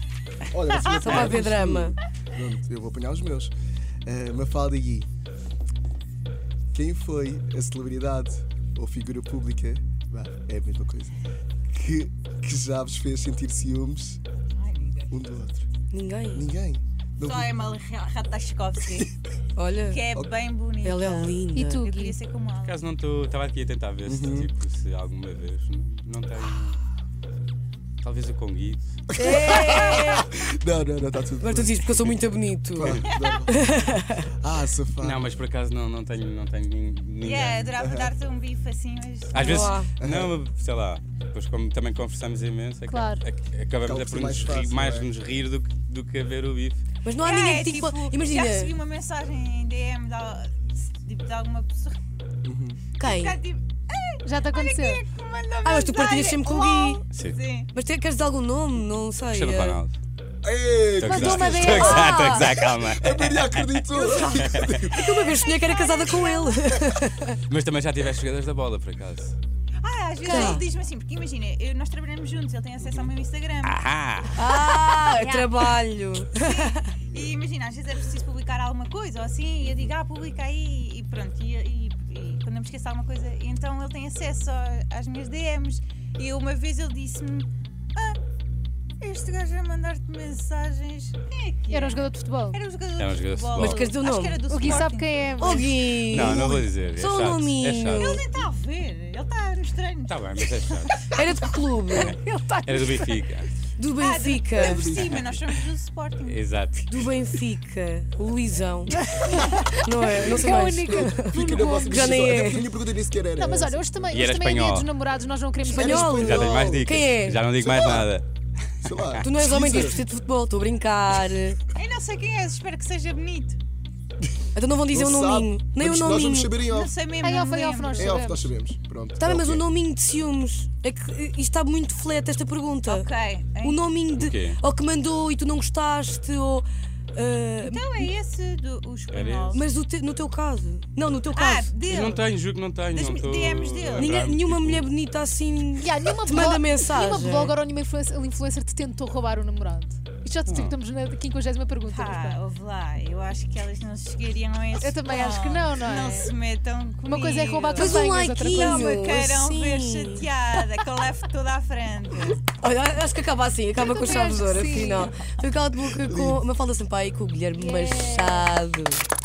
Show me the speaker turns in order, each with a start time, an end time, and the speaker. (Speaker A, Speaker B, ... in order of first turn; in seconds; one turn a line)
Speaker A: 0.5-3.5
Speaker B: 0.8-1.4
Speaker C: 1.0-2.0
Speaker A: 4.0-5.1
Speaker A: 6.7-11.2
Speaker A: 11.7-14.2
Speaker B: 14.6-15.1
Speaker A: 15.1-15.7
Speaker C: 15.9-16.4
Speaker A: 16.3-17.5
Speaker B: 17.2-19.1
Speaker C: 19.6-20.0
Speaker B: 19.9-22.8
Speaker C: 20.8-21.8
Speaker D: 21.5-22.2
Speaker E: 22.6-26.8
Speaker A: 24.1-24.5
Speaker E: 28.0-28.9
Speaker A: 29.1-32.1
Speaker C: 29.2-30.2
Speaker C: 31.4-34.3
Speaker A: 32.8-33.6
Speaker B: 33.1-33.4
Speaker A: 34.4-35.3
Speaker E: 35.0-37.8
Speaker B: 37.2-39.8
Speaker A: 37.8-38.1
Speaker E: 39.3-46.8
Speaker C: 39.4-39.9
Speaker A: 40.0-40.3
Speaker D: 42.9-43.2
Speaker A: 43.9-45.1
Speaker C: 47.0-48.7
Speaker B: 47.2-52.0
Speaker A: 52.4-52.8
Speaker C: 53.0-53.4
Speaker B: 53.0-57.7
Speaker D: 54.2-55.0
Speaker C: 55.6-57.0
Speaker C: 57.7-59.8
Speaker E: 59.3-59.9
Speaker A: 60.4-65.4
Speaker E: 61.0-63.8
Speaker C: 61.0-62.2
Speaker D: 61.1-62.6
Speaker C: 63.9-67.4
Speaker B: 65.3-66.8
Speaker E: 67.5-69.3
Speaker B: 69.8-73.8
Speaker D: 70.2-70.6
Speaker C: 70.3-70.7
Speaker E: 73.6-74.4
Speaker C: 74.4-76.9
Speaker B: 74.4-75.8
Speaker B: 76.4-88.2
Speaker B: 89.0-95.6
Speaker D: 91.7-92.6
Speaker E: 93.0-93.9
Speaker C: 93.6-94.8
Speaker D: 94.5-96.6
Speaker C: 95.4-98.2
Speaker E: 96.0-98.1
Speaker B: 97.9-101.2
Speaker E: 100.1-101.0
Speaker C: 101.1-102.1
Speaker E: 101.9-103.5
Speaker D: 102.0-103.3
Speaker C: 103.8-105.0
Speaker B: 104.0-106.4
Speaker A: 104.5-105.3
Speaker E: 106.2-106.8
Speaker C: 106.9-109.0
Speaker D: 108.9-112.0
Speaker C: 109.7-112.7
Speaker A: 110.1-114.0
Speaker D: 113.4-116.2
Speaker E: 114.1-114.9
Speaker A: 115.6-116.9
Speaker C: 115.7-117.5
Speaker E: 116.1-118.2
Speaker A: 117.6-118.1
Speaker A: 118.8-120.0
Speaker C: 119.2-121.6
Speaker B: 121.8-123.6
Speaker C: 124.5-126.6
Speaker A: 124.9-127.0
Speaker B: 126.7-128.1
Speaker D: 127.2-128.5
Speaker A: 128.0-129.6
Speaker C: 129.2-133.1
Speaker B: 132.9-133.9
Speaker C: 133.6-138.1
Speaker E: 134.2-134.6
Speaker B: 137.6-139.6
Speaker E: 139.1-139.6
Speaker C: 139.5-141.7
Speaker B: 141.3-142.3
Speaker E: 141.9-144.9
Speaker B: 142.9-144.2
Speaker C: 144.0-147.5
Speaker D: 145.8-152.4
Speaker E: 150.5-150.8
Speaker B: 151.8-162.4
Speaker D: 154.8-156.3
Speaker D: 157.0-159.1
Speaker C: 157.8-160.3
Speaker C: 162.6-169.1
Speaker D: 163.8-165.1
Speaker B: 164.8-165.2
Speaker A: 166.0-166.4
Speaker D: 167.5-168.5